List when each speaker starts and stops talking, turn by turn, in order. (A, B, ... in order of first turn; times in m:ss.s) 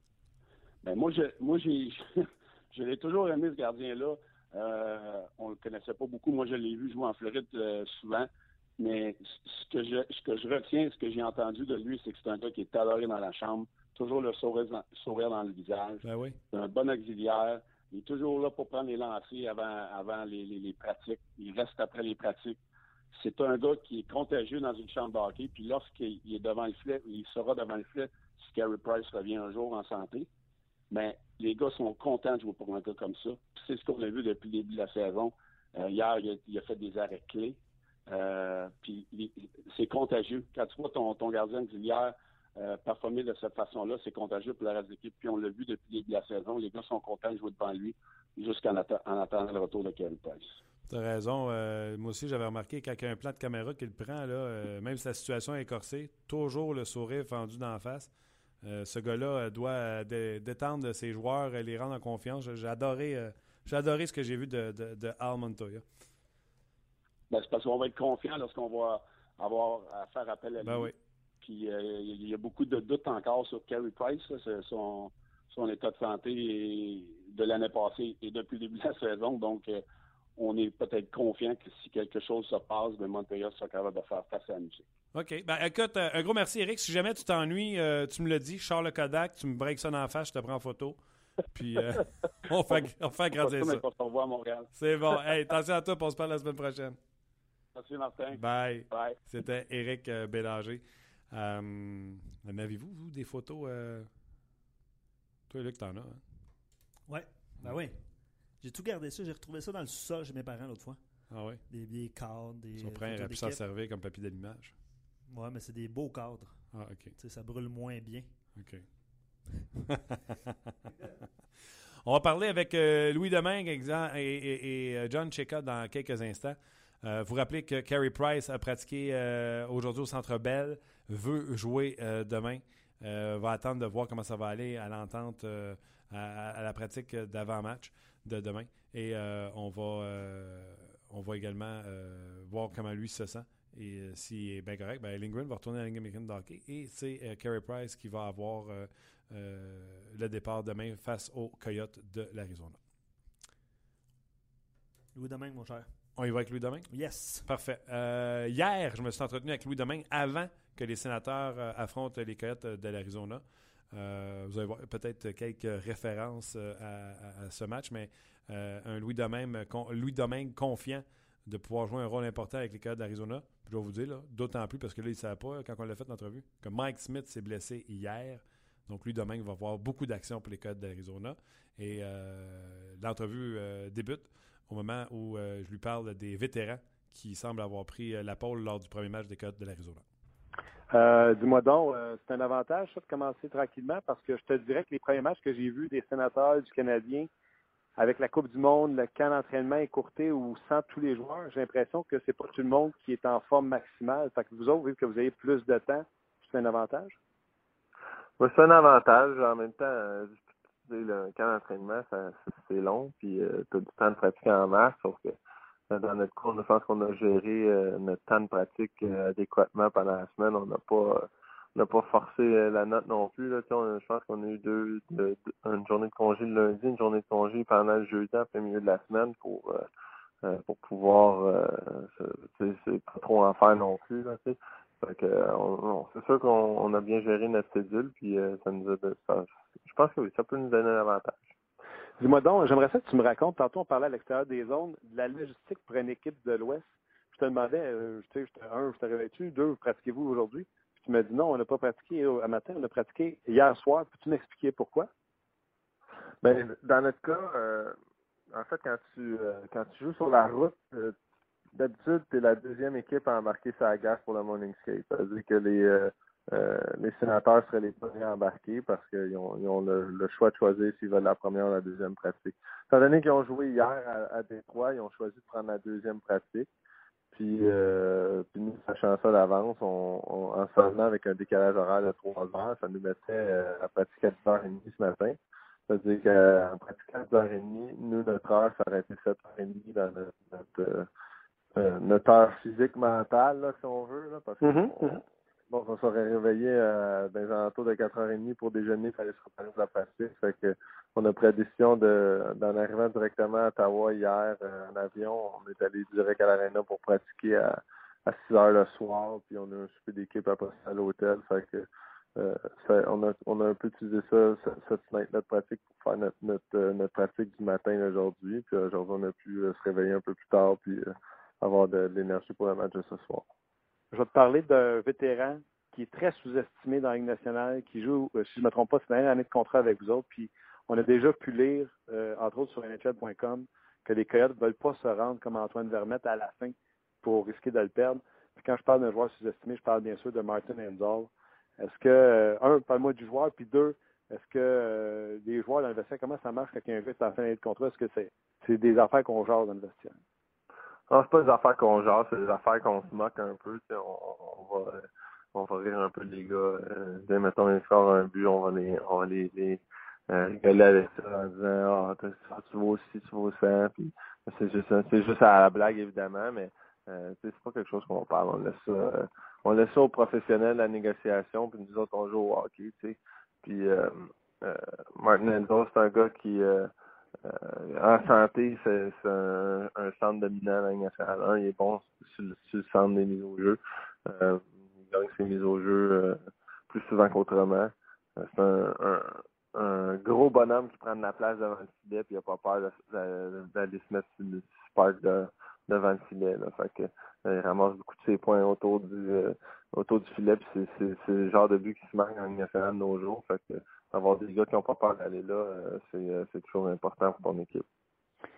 0:00.8-0:22.6 A
0:16.0-0:16.4 B
0:23.1-0:30.3 A
0:30.9-0:50.5 A
0:50.9-0:58.1 B
0:58.6-1:05.8 B
1:07.3-1:19.8 A
1:10.6-1:10.9 B
1:20.4-1:24.9 A
1:25.1-1:31.0 B
1:31.6-1:33.8 B
1:33.4-1:34.7 A
1:34.7-1:37.0 B
1:37.8-1:39.2 A
1:38.3-1:44.1 B
1:45.5-1:46.2 B
1:47.1-1:48.0 C
1:48.6-1:51.0 C
1:51.3-1:51.6 B
1:51.7-1:53.6 C
1:52.8-1:54.7 B
1:55.3-1:56.6 C
1:56.7-1:57.1 B
1:57.2-1:58.3 C
1:58.6-1:58.8 B
1:59.8-2:00.5 B
2:02.0-2:32.8 B
2:35.2-2:35.9 C
2:36.2-2:36.9 B
2:36.9-2:37.4 C
2:37.4-3:10.0 B
3:10.9-3:17.3 D
3:18.0-3:27.2 D
3:28.4-3:35.4 E
3:35.9-3:49.8 E
3:50.4-4:01.5 E
4:02.2-4:15.1 D
4:16.4-4:18.0 E
4:18.5-4:21.2 E
4:21.7-4:36.7 E
4:37.3-4:45.4 E
4:45.9-4:51.1 E
4:51.7-5:23.4 E
4:54.6-4:55.2 D
5:24.1-5:50.2 D
5:51.1-6:16.9 E
6:17.4-6:47.8 E